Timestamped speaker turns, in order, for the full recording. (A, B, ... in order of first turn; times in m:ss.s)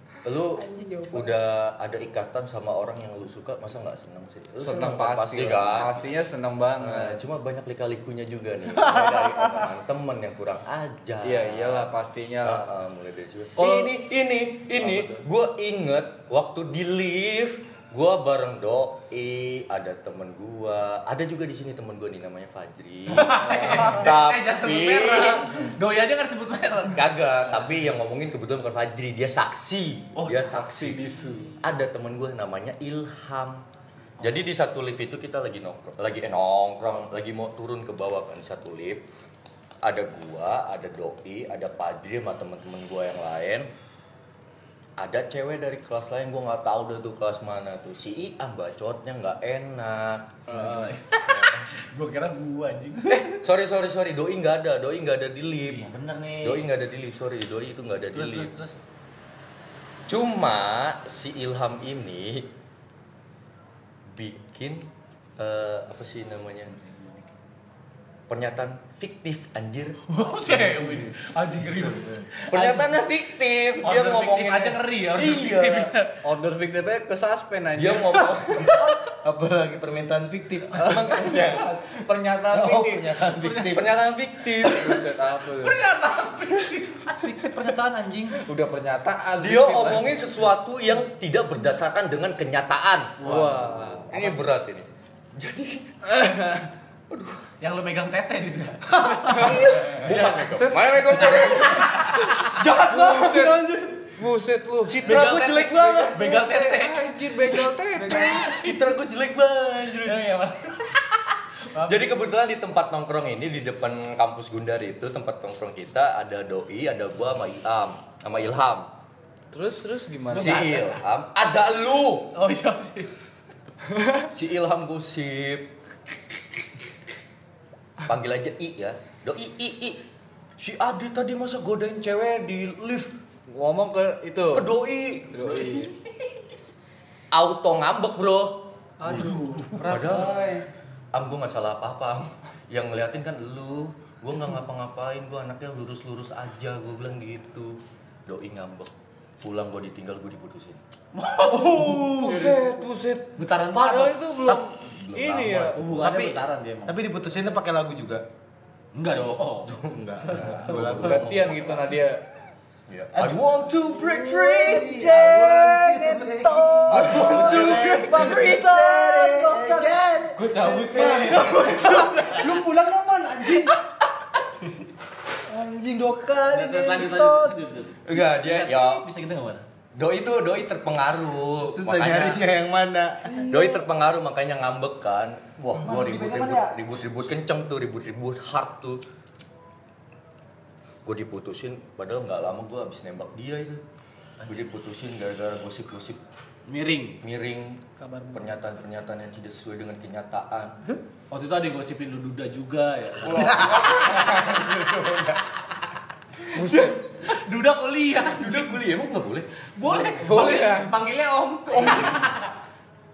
0:00.2-0:06.0 A
0:00.6-0:01.4 B
0:04.6-0:07.2 C
0:06.8-0:11.9 A
0:11.2-0:12.7 C
0:12.4-0:25.6 A
0:13.6-0:13.9 C
0:14.8-0:15.2 C
0:23.1-0:27.1 D
0:23.4-0:24.0 C
0:26.9-0:31.0 A
0:30.1-0:30.7 D
0:30.4-0:31.6 C
0:31.6-0:33.6 A
0:34.2-0:39.0 A
0:39.8-0:43.7 A
0:45.0-0:51.6 A
0:50.5-0:53.4 D
0:53.1-0:55.9 A
0:55.7-0:56.7 D
0:56.4-0:58.5 A
0:58.1-0:58.7 D
1:00.1-1:02.5 A
1:04.1-1:06.7 A
1:08.3-1:10.0 A
1:10.1-1:12.9 D
1:11.8-1:12.2 E
1:12.5-1:15.9 A
1:13.8-1:16.2 D
1:16.2-1:18.3 C
1:17.7-1:19.0 A
1:19.0-1:21.2 E
1:20.7-1:21.7 A
1:20.8-1:23.2 C
1:22.5-1:23.9 E
1:23.4-1:23.8 D
1:23.5-1:25.1 A
1:24.6-1:25.8 C
1:25.5-1:27.3 D
1:27.2-1:28.4 B
1:28.4-1:30.2 C
1:29.4-1:36.5 A
1:33.2-1:33.7 D
1:33.2-1:34.4 C
1:36.1-1:36.6 C
1:37.1-1:37.4 A
1:37.6-1:40.3 D
1:39.2-1:43.9 A
1:39.3-1:41.4 C
1:41.3-1:42.5 D
1:42.8-1:45.3 C
1:44.8-1:46.3 A
1:45.0-1:48.8 D
1:46.1-1:48.6 C
1:48.2-1:50.2 A
1:49.8-1:52.3 D
1:51.8-1:58.9 A
1:59.5-2:00.7 C
2:00.3-2:01.0 D
2:00.3-2:02.4 A
2:02.3-2:03.1 D
2:04.3-2:05.7 A
2:08.0-2:10.0 A
2:10.6-2:13.1 A
2:13.5-2:14.7 C
2:14.5-2:15.5 A
2:15.3-2:15.9 C
2:15.5-2:15.9 D
2:17.3-2:18.7 A
2:19.0-2:20.7 B
2:19.1-2:19.9 D
2:19.8-2:20.4 A
2:21.1-2:30.8 A
2:31.1-2:32.6 D
2:31.7-2:36.0 C
2:33.4-2:34.3 D
2:34.5-2:35.9 A
2:35.7-2:37.1 D
2:36.0-2:38.2 E
2:38.9-2:39.8 D
2:39.7-2:41.4 E
2:40.3-2:41.9 A
2:40.8-2:42.2 C
2:42.9-2:44.9 A
2:43.1-2:52.2 E
2:44.0-2:53.7 B
2:46.9-2:48.7 A
2:50.4-2:52.1 D
2:51.4-2:52.1 A
2:55.5-2:57.6 B
2:56.4-2:59.6 D
2:58.0-2:59.0 A
2:59.9-3:02.4 A
3:01.6-3:03.4 E
3:03.3-3:03.9 B
3:03.5-3:09.0 A
3:05.7-3:06.7 B
3:11.0-3:13.8 A
3:14.4-3:16.2 A
3:16.7-3:17.2 D
3:17.2-3:20.8 A
3:18.0-3:18.6 B
3:21.3-3:24.4 D
3:23.2-3:25.4 A
3:26.5-3:27.0 C
3:26.6-3:28.8 D
3:28.3-3:29.5 A
3:29.8-3:32.5 D
3:30.2-3:30.9 C